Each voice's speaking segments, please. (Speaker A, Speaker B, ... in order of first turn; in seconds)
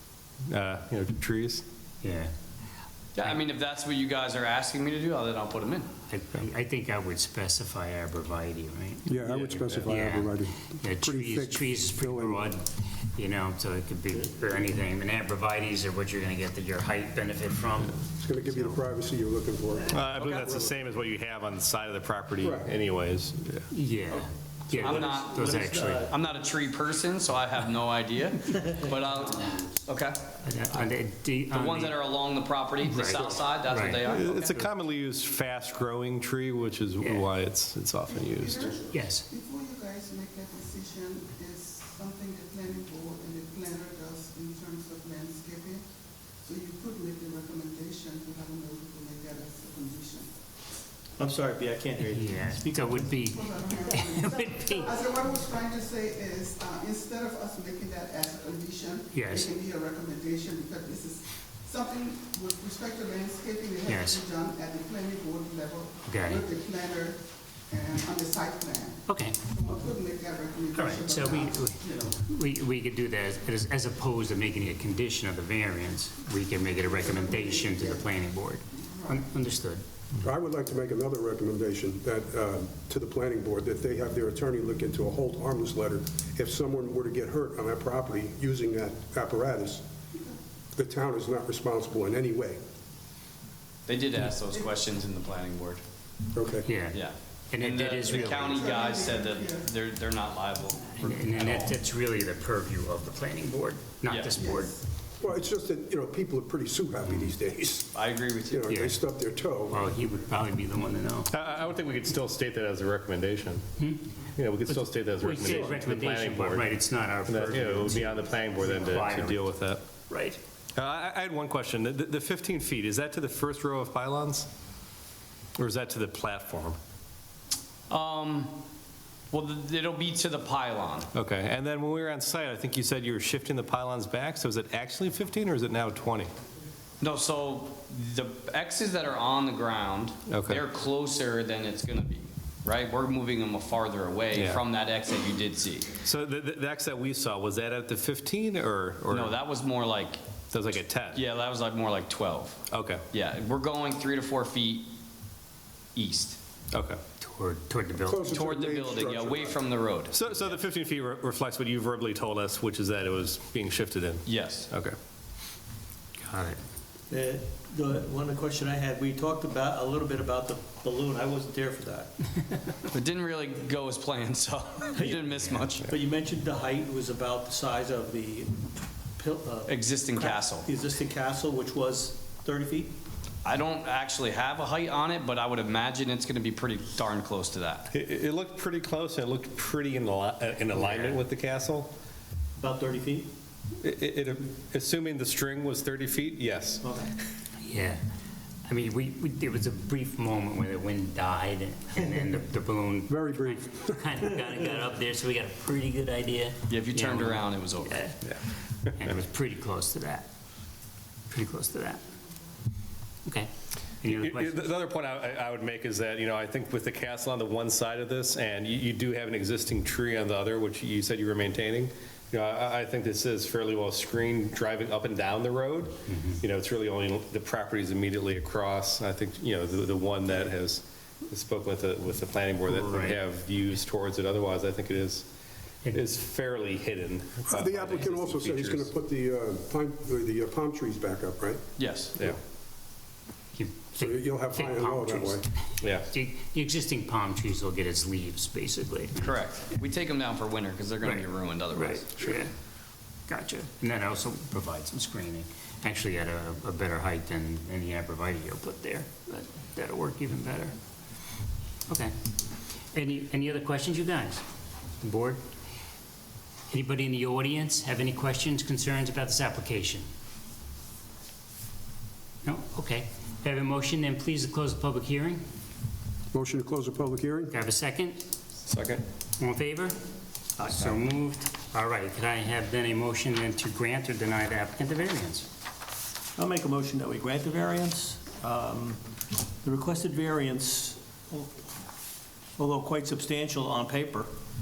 Speaker A: 0.5-1.6, 9.3-9.9, 19.9-23.7, 34.0-38.8, 111.3-113.6, 114.3-116.7, 117.2-119.8, 120.8-124.5, 125.6-126.8, 131.1-136.3, 140.3-140.6, 144.3-144.6, 146.0-149.3, 150.5-151.2, 152.7-153.0, 156.7-157.0, 160.1-164.9, 187.9-191.9, 193.8-196.8, 214.1-235.3, 235.9-238.9, 245.8-246.1, 278.7-279.0
Speaker B: 2.0-2.3, 6.1-18.8, 23.7-26.1, 30.4-32.0, 32.8-34.0, 37.0-37.2, 38.9-39.2, 52.1-55.0, 59.1-59.5, 63.8-64.2, 66.1-66.5, 69.1-69.4, 70.7-79.8, 96.7-97.0, 97.5-98.7, 101.0-104.8, 108.7-109.0, 109.7-111.3, 114.7-119.6, 120.1-120.4, 157.2-158.4, 166.2-166.6, 175.3-175.7, 197.6-198.0, 198.7-208.3, 208.9-210.3, 211.3-212.0, 214.0-214.7, 226.1-226.4, 232.7-233.2, 243.5-249.4, 251.0-252.5, 253.3-260.7, 261.9-262.1, 262.9-264.4, 265.0-265.4, 266.7-270.1, 272.4-275.4, 277.5-278.2, 279.4-279.9, 280.6-285.5
Speaker C: 3.1-5.9, 20.1-20.4, 24.1-25.4, 26.0-30.2, 31.5-34.7, 93.8-95.8, 96.9-101.8, 104.0-104.3, 107.9-108.7, 127.9-128.6, 129.3-131.1, 137.0-145.9, 149.1-150.2, 151.1-154.9, 155.9-156.4, 158.3-160.6, 164.2-164.7, 172.9-175.9, 179.7-180.7, 183.4-187.9, 206.7-207.9, 241.8-242.1, 249.2-252.2
Speaker D: 9.1-12.4, 18.2-20.7, 22.4-22.7, 80.2-89.8, 90.8-92.6, 96.3-96.7, 105.2-107.9, 108.5-109.8, 158.0-159.7, 203.1-204.0, 237.4-241.6, 243.9-245.4, 276.3-277.5
Speaker E: 24.7-26.1, 51.2-53.3, 167.1-172.1, 174.9-182.9, 190.8-191.1, 192.6-193.3, 196.8-197.1, 280.6-281.0, 286.4-289.0, 289.6-291.5, 292.6-294.3
Speaker F: 38.1-45.8, 46.4-50.3, 53.1-72.2, 76.9-78.1, 78.8-79.2, 98.1-99.7, 104.4-104.8